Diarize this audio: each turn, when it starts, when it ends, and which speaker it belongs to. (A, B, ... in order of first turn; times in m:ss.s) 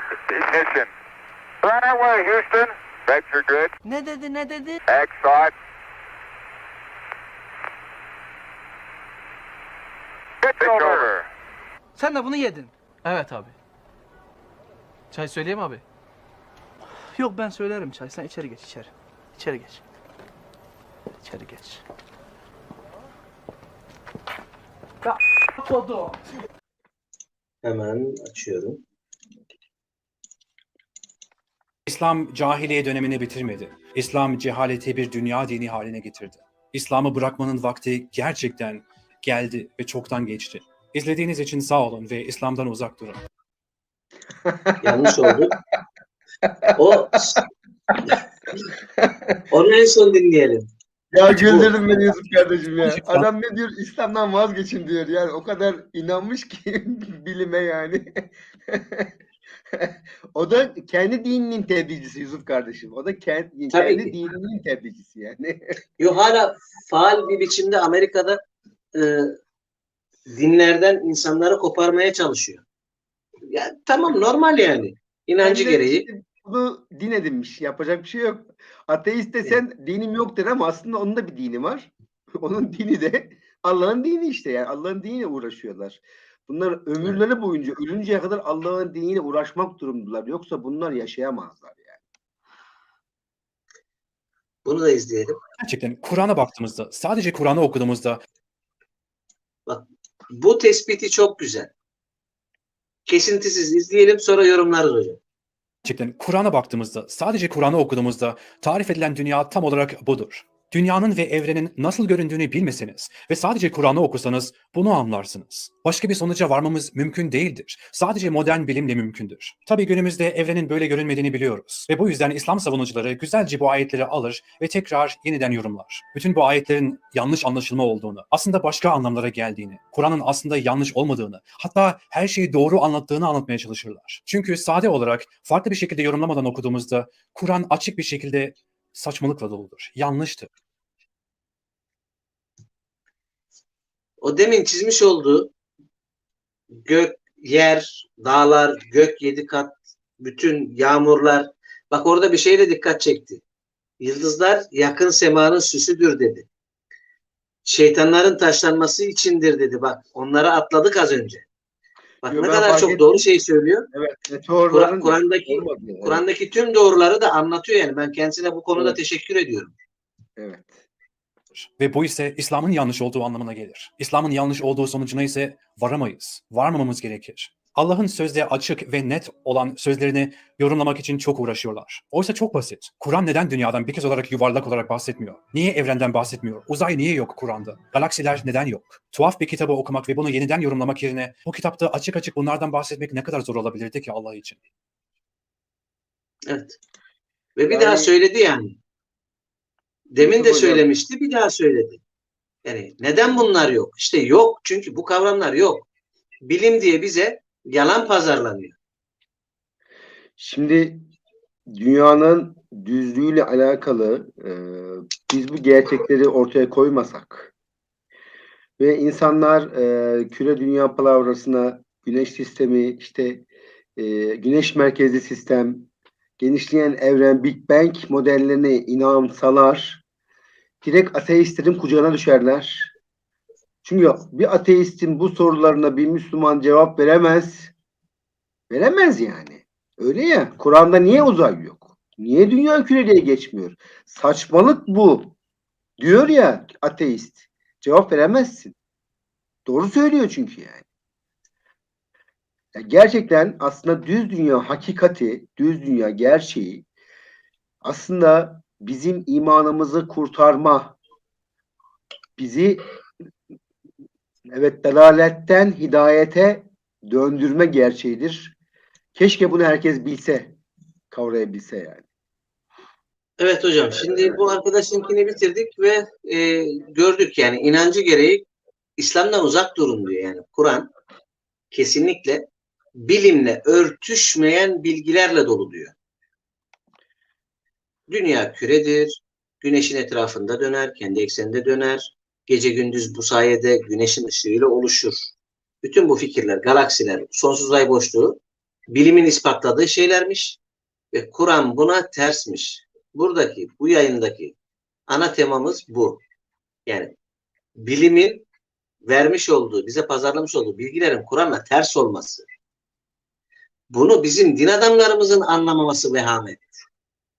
0:00.3-0:00.9 A
0:01.6-0:03.7 A
0:03.8-0:04.8 B
0:04.9-0:05.5 A
0:10.4-0:11.3 A
0:12.0-0:13.6 B
0:15.1-0:15.8 B
0:17.1-0:19.8 B
0:21.2-0:21.8 B
0:25.0-0:26.2 B
0:27.6-0:28.8 C
0:31.9-0:43.2 D
0:44.4-0:45.0 E
0:44.8-0:45.6 C
0:46.8-0:47.4 C
0:49.0-0:49.4 E
0:49.5-0:50.7 C
0:51.1-0:59.1 E
0:51.2-0:51.8 C
0:52.8-0:53.3 D
0:59.8-1:05.6 E
1:03.7-1:04.2 C
1:06.0-1:08.4 C
1:09.0-1:09.3 C
1:10.3-1:12.6 C
1:13.5-1:16.1 C
1:15.4-1:32.0 E
1:34.6-1:35.4 C
1:35.6-1:38.2 D
1:39.7-1:41.7 C
1:43.1-1:45.2 C
1:45.8-2:20.5 D
2:24.2-2:25.5 C
2:26.7-2:33.4 C
2:34.0-2:36.5 C
2:37.6-2:41.4 C
2:42.2-2:43.8 C
2:42.2-2:43.2 E
2:43.9-2:46.2 E
2:44.7-2:49.7 C
2:48.8-2:49.0 E
2:50.4-2:50.8 E
2:51.5-3:14.6 D
3:16.5-3:16.8 C
3:17.6-3:18.8 C
3:17.7-3:18.1 E
3:20.1-3:22.0 C
3:20.2-3:20.8 E
3:22.6-3:25.9 C
3:26.4-3:28.8 C
3:30.4-3:31.1 E
3:31.7-3:37.5 E
3:38.8-3:50.0 E
3:50.8-3:52.9 E
3:53.8-3:57.7 E
3:58.7-4:05.3 E
4:06.0-4:08.8 E
4:09.7-4:10.8 E
4:12.8-4:16.8 E
4:17.8-4:21.0 E
4:22.4-4:22.8 E
4:24.5-4:28.5 E
4:29.1-4:30.5 E
4:31.1-4:32.0 E
4:33.4-4:40.9 C
4:41.7-4:42.5 C
4:43.0-4:45.9 C
4:48.1-4:58.4 C
4:58.9-5:00.6 C
5:01.1-5:04.5 C
5:05.1-5:06.2 C
5:06.8-5:07.1 C
5:07.8-5:08.5 C
5:09.0-5:12.4 C
5:13.9-5:16.8 C